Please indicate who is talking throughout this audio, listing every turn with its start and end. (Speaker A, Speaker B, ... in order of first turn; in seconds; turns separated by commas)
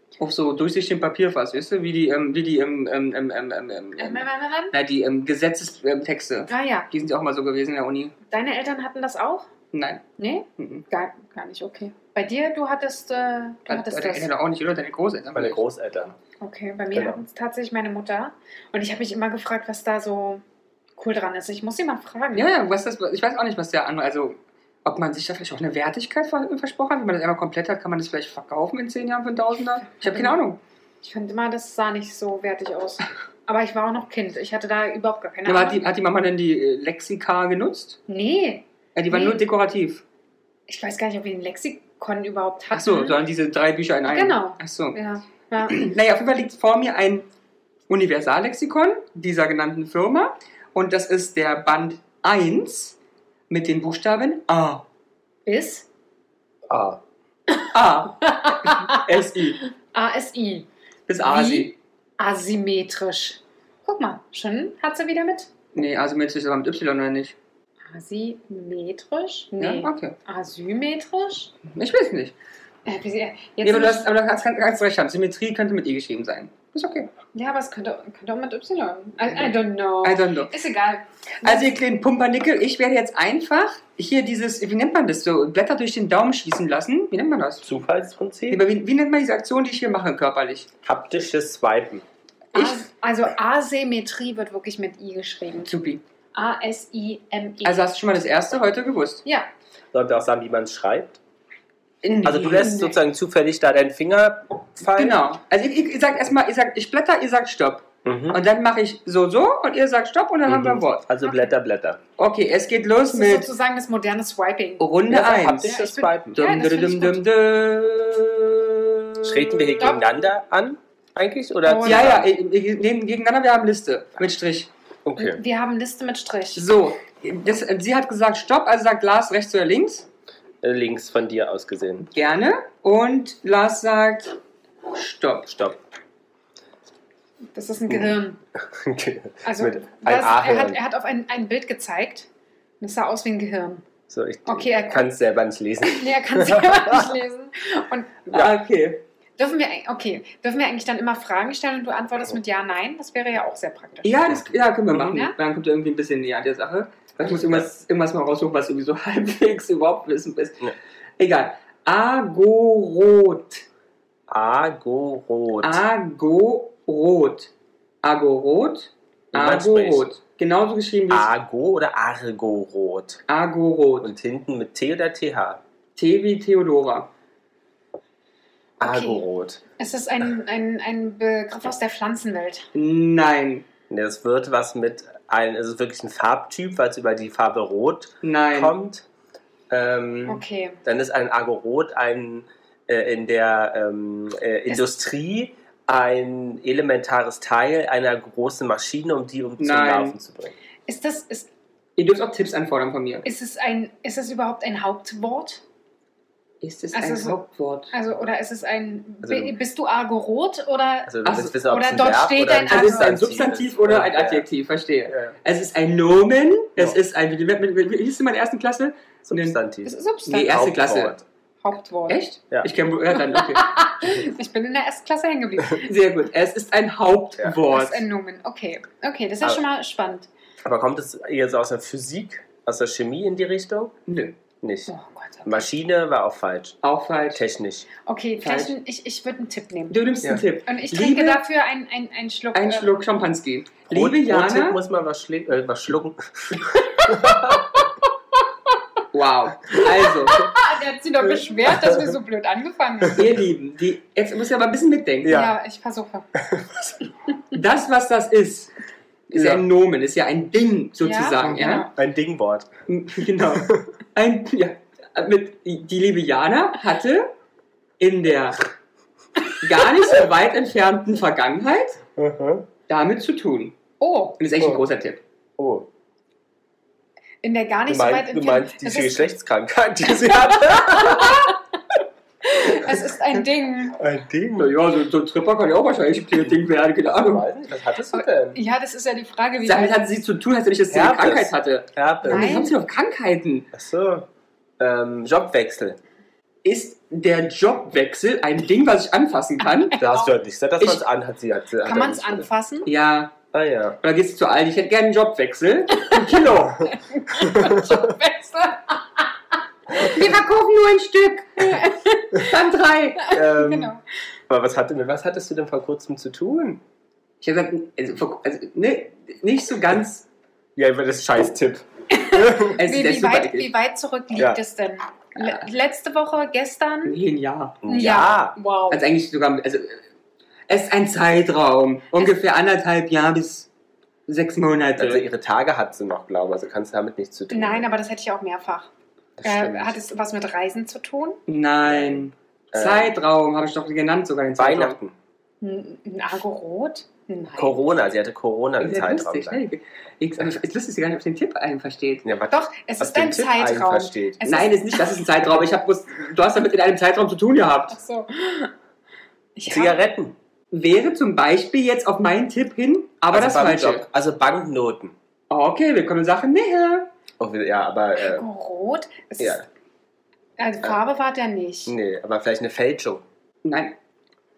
Speaker A: 0.2-8.1, Speaker B: 4.0-4.8, Speaker B: 6.5-6.9, Speaker B: 8.3-9.5, Speaker A: 9.7-10.0, Speaker B: 10.2-14.3, Speaker A: 10.6-10.8, Speaker A: 13.7-15.6, Speaker C: 15.3-16.2, Speaker B: 16.4-20.4, Speaker C: 16.9-17.2, Speaker B: 21.0-22.5, Speaker A: 22.3-30.6, Speaker B: 30.0-30.4, Speaker B: 31.0-35.8, Speaker A: 35.5-38.0, Speaker B: 38.1-39.5, Speaker A: 39.0-40.0, Speaker B: 40.7-43.2, Speaker A: 42.7-45.0, Speaker B: 44.1-45.9, Speaker A: 45.6-47.3, Speaker A: 47.9-53.0, Speaker A: 53.5-54.8, Speaker B: 55.5-55.9, Speaker C: 56.7-57.0, Speaker A: 57.7-59.6, Speaker B: 58.2-59.0, Speaker B: 59.9-60.7, Speaker A: 61.1-61.7, Speaker B: 61.2-65.5, Speaker A: 65.8-67.4, Speaker B: 67.9-71.5, Speaker A: 69.6-70.2, Speaker A: 71.7-72.4, Speaker B: 72.8-74.1, Speaker A: 73.6-77.1, Speaker B: 77.3-81.8, Speaker A: 80.0-80.5, Speaker A: 81.4-87.7, Speaker C: 87.6-88.6, Speaker A: 88.5-90.7, Speaker C: 90.8-92.0, Speaker A: 92.5-92.8, Speaker B: 92.5-95.7, Speaker A: 95.7-96.0, Speaker B: 96.3-97.9, Speaker A: 97.6-99.2, Speaker C: 99.9-101.2, Speaker A: 102.0-102.9, Speaker C: 102.2-105.2, Speaker A: 105.0-111.1, Speaker C: 108.0-108.4, Speaker C: 110.5-112.0, Speaker A: 112.2-113.5, Speaker B: 113.1-114.9, Speaker A: 114.8-115.8, Speaker C: 115.1-116.5, Speaker B: 115.6-117.2, Speaker A: 116.3-119.8, Speaker C: 119.2-122.3, Speaker B: 119.8-120.3, Speaker B: 121.7-122.1, Speaker A: 121.8-124.7, Speaker C: 125.0-125.4, Speaker B: 125.2-126.7, Speaker A: 126.5-130.1, Speaker C: 130.6-132.1, Speaker A: 132.1-134.4, Speaker A: 134.9-135.5, Speaker C: 135.5-135.8, Speaker B: 137.6-138.4, Speaker C: 138.7-140.8, Speaker B: 139.4-142.3, Speaker B: 142.8-143.8, Speaker C: 144.1-147.0, Speaker B: 144.5-145.1, Speaker B: 145.9-148.5, Speaker A: 148.3-149.0, Speaker B: 149.4-154.3, Speaker A: 154.0-160.6, Speaker B: 155.0-155.4, Speaker C: 157.2-157.7, Speaker A: 161.2-163.7, Speaker C: 164.3-165.8, Speaker A: 165.6-167.5, Speaker A: 168.0-171.3, Speaker C: 169.3-170.1, Speaker C: 171.1-173.2, Speaker A: 173.3-174.1, Speaker C: 174.0-175.6, Speaker A: 176.0-177.1, Speaker C: 178.8-179.6, Speaker B: 178.8-179.2, Speaker B: 179.8-182.7, Speaker A: 182.7-183.7, Speaker C: 183.9-189.1, Speaker A: 188.2-188.7, Speaker C: 189.7-200.5, Speaker B: 190.3-190.8, Speaker A: 199.6-200.2, Speaker B: 200.9-201.5, Speaker A: 202.0-203.3, Speaker B: 203.2-205.6, Speaker A: 206.6-207.9, Speaker B: 206.9-207.4, Speaker B: 207.9-213.2, Speaker C: 209.2-209.5, Speaker C: 211.1-214.5, Speaker A: 211.3-211.5, Speaker A: 212.7-219.6, Speaker C: 215.1-215.3, Speaker C: 219.2-221.2, Speaker B: 219.9-220.6, Speaker A: 220.2-221.2, Speaker B: 221.6-222.2, Speaker A: 222.1-223.7, Speaker B: 223.1-225.9, Speaker A: 225.8-228.1, Speaker B: 227.7-230.3, Speaker C: 230.7-233.9, Speaker A: 234.1-234.4, Speaker C: 234.6-234.9, Speaker B: 234.9-235.7, Speaker C: 235.4-236.8, Speaker A: 236.8-237.4, Speaker C: 237.3-237.9, Speaker B: 238.1-240.1, Speaker A: 238.4-238.7, Speaker A: 239.9-241.4, Speaker B: 240.7-242.9, Speaker A: 242.5-244.8, Speaker C: 243.9-247.7, Speaker A: 249.1-250.5, Speaker B: 250.3-253.3, Speaker C: 251.7-252.1, Speaker A: 253.1-255.4, Speaker C: 255.2-255.5, Speaker B: 255.3-256.3, Speaker A: 257.5-258.7, Speaker A: 259.3-261.9, Speaker C: 259.3-259.6, Speaker B: 261.0-261.9, Speaker C: 261.9-262.7, Speaker A: 262.9-267.3, Speaker C: 263.4-263.9, Speaker A: 268.0-268.6, Speaker A: 269.6-272.0, Speaker C: 272.2-272.7, Speaker A: 272.9-273.8, Speaker B: 274.0-274.4, Speaker A: 274.4-275.2, Speaker C: 275.6-275.9, Speaker B: 277.4-279.3, Speaker C: 277.9-281.5, Speaker B: 280.1-281.6, Speaker B: 282.4-284.0, Speaker C: 284.0-284.7, Speaker A: 284.6-287.5, Speaker C: 286.4-288.6, Speaker B: 288.1-290.1, Speaker A: 289.6-293.7, Speaker C: 290.9-292.7, Speaker B: 292.2-292.7, Speaker C: 293.7-294.3, Speaker C: 294.8-296.0, Speaker A: 296.6-300.0, Speaker B: 299.9-300.3, Speaker C: 300.0-302.5, Speaker B: 301.8-302.9, Speaker A: 302.9-303.4, Speaker C: 303.5-304.0, Speaker A: 304.0-306.9, Speaker B: 305.9-306.3, Speaker B: 306.9-312.6, Speaker C: 307.3-307.9, Speaker A: 310.2-310.5, Speaker A: 312.4-313.3, Speaker B: 313.2-314.0, Speaker C: 313.3-313.9, Speaker C: 314.5-316.8, Speaker A: 317.4-320.3, Speaker C: 320.8-322.8, Speaker B: 322.2-327.2, Speaker A: 322.8-323.7, Speaker C: 324.4-324.6, Speaker A: 325.4-325.7, Speaker A: 327.1-327.8, Speaker C: 327.8-328.6, Speaker B: 327.9-329.0, Speaker A: 328.9-330.0, Speaker A: 330.7-333.7, Speaker A: 334.3-335.2, Speaker C: 335.0-337.9, Speaker B: 337.5-338.9, Speaker C: 339.4-340.0, Speaker B: 339.4-341.4, Speaker A: 341.5-345.0, Speaker C: 341.8-343.1, Speaker C: 344.6-345.1, Speaker B: 345.6-347.8, Speaker C: 347.6-349.6, Speaker A: 348.8-352.2, Speaker C: 352.2-354.4, Speaker B: 352.5-355.3, Speaker A: 354.4-358.0, Speaker B: 357.9-358.7, Speaker B: 359.6-360.0, Speaker C: 359.7-360.4, Speaker A: 360.7-364.0, Speaker C: 363.3-365.1, Speaker A: 365.5-367.1, Speaker C: 367.4-368.5, Speaker B: 368.2-369.6, Speaker C: 369.4-369.6, Speaker B: 370.6-371.9, Speaker C: 371.9-373.2, Speaker A: 373.6-374.0